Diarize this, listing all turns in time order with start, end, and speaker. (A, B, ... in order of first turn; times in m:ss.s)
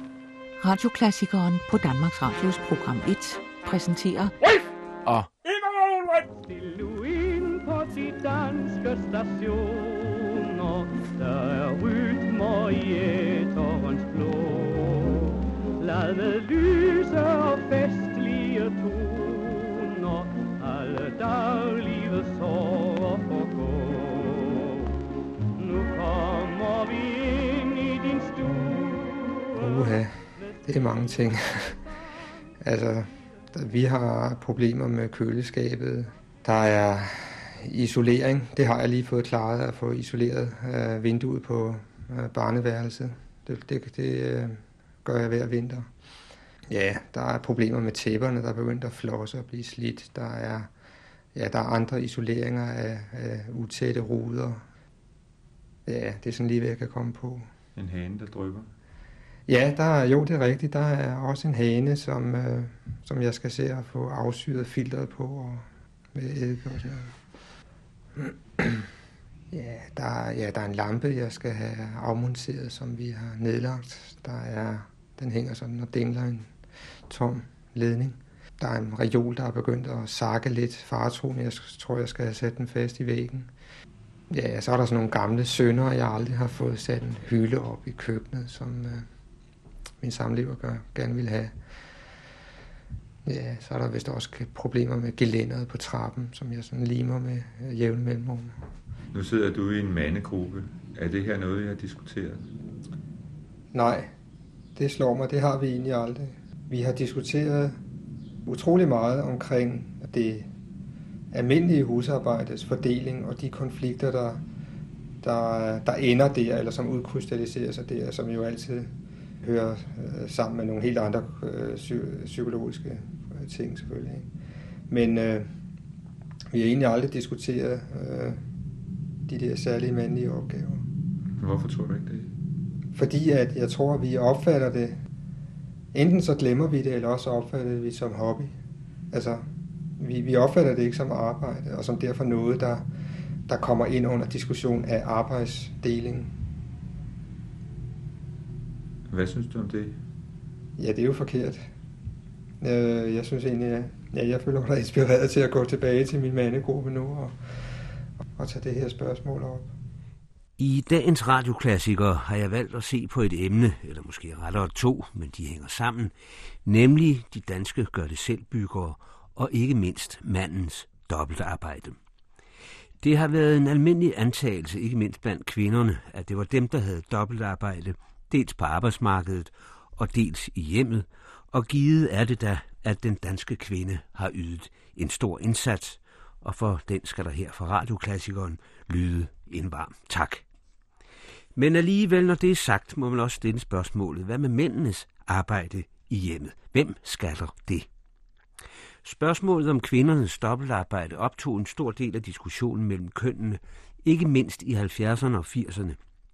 0:00.6-0:04.3 A
0:05.3-0:24.8 B
0:25.6-0:30.6 B
0:29.6-0:31.8 C
0:32.6-0:45.9 C
0:46.7-0:50.7 C
0:51.3-0:54.6 C
0:55.8-0:57.5 C
0:57.8-0:58.7 D
0:59.5-1:07.2 C
1:08.2-1:08.8 C
1:09.5-1:16.5 C
1:17.1-1:23.5 C
1:24.3-1:29.1 C
1:30.0-1:31.6 C
1:33.2-1:38.6 C
1:39.1-1:42.5 D
1:43.7-1:44.1 C
1:44.8-1:47.8 C
1:48.4-1:50.5 C
1:51.3-1:54.4 C
1:55.2-2:04.3 C
2:04.9-2:05.5 C
2:06.5-2:08.4 C
2:09.3-2:10.8 C
2:11.4-2:12.3 D
2:12.9-2:15.0 C
2:15.9-2:18.5 C
2:19.1-2:19.4 C
2:20.0-2:22.8 C
2:23.5-2:26.3 C
2:29.1-2:30.0 D
2:30.8-2:31.6 C
2:32.6-2:37.4 C
2:38.4-2:39.7 C
2:40.6-2:46.1 E
2:46.6-2:52.0 E
2:53.0-3:10.4 E
3:11.6-3:17.9 E
3:19.0-3:26.0 E